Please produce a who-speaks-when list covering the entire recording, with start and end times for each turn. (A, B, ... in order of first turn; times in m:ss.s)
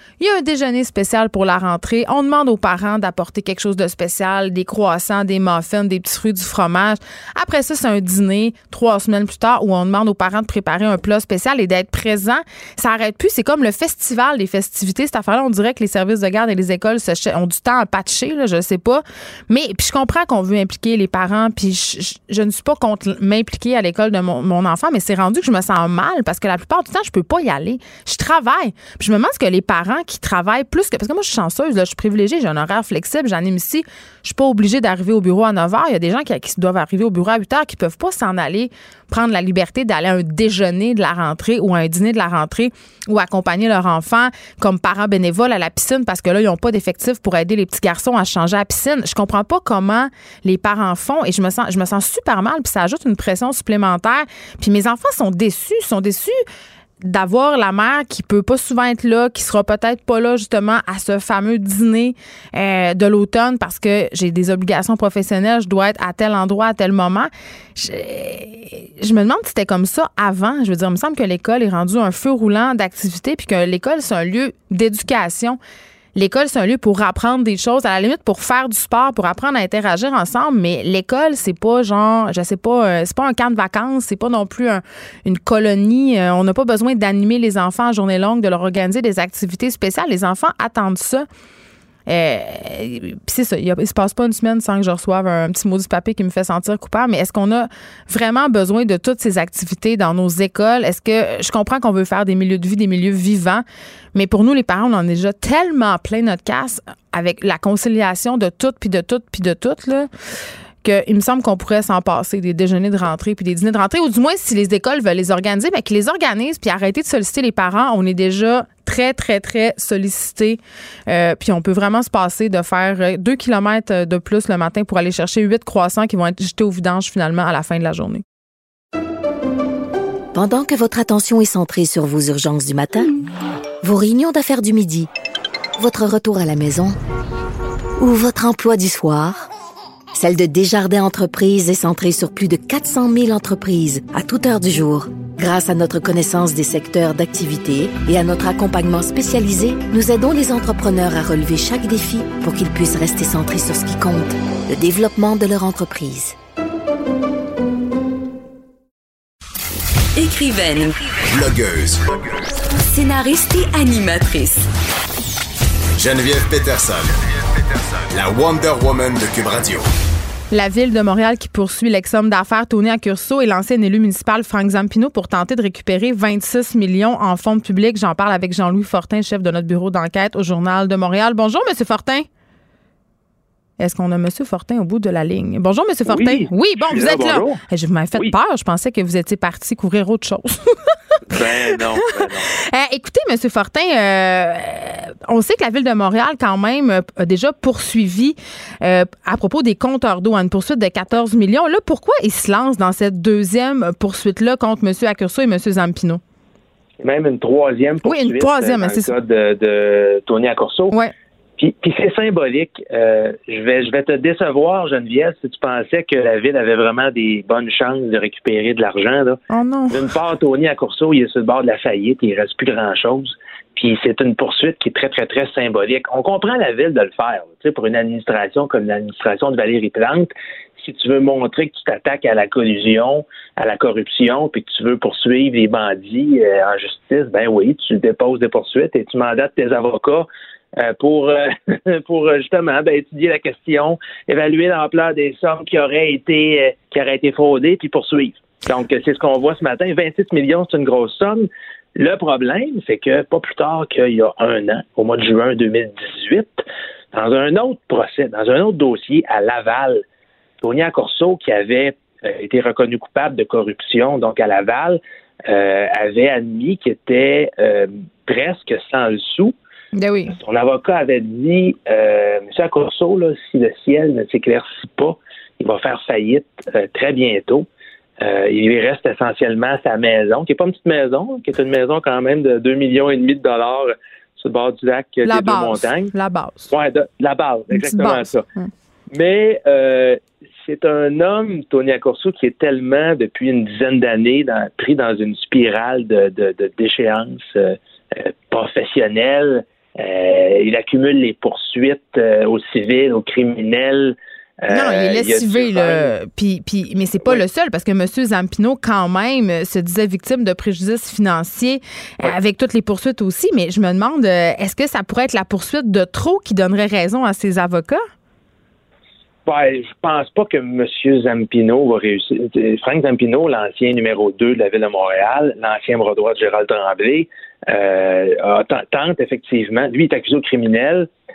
0:00.2-0:56.4 A
0:57.0-1:15.6 A
1:16.2-1:31.3 A
1:32.1-1:43.6 A
1:44.2-1:50.1 A
1:50.8-2:08.2 A
2:10.3-2:13.2 B
2:13.8-2:15.1 B
2:15.8-2:17.0 B
2:18.0-2:19.4 B
2:20.1-2:36.4 B
2:40.2-2:41.1 C
2:41.3-2:42.2 D
2:42.5-2:44.7 C
2:46.0-2:49.9 D
2:50.5-3:02.3 A
3:03.8-3:26.2 A
3:06.1-3:07.6 E
3:11.3-3:12.5 E
3:27.0-3:31.0 E
3:28.0-3:29.1 A
3:31.6-4:20.0 E
3:39.5-3:40.1 A
4:20.6-4:29.6 E
4:30.0-4:30.4 A
4:30.3-4:37.7 E
4:38.2-4:46.1 E
4:45.2-4:46.7 A
4:46.7-4:48.4 E
4:47.7-4:48.7 A
4:49.1-5:06.1 E
5:04.7-5:18.0 A
5:19.5-5:31.1 E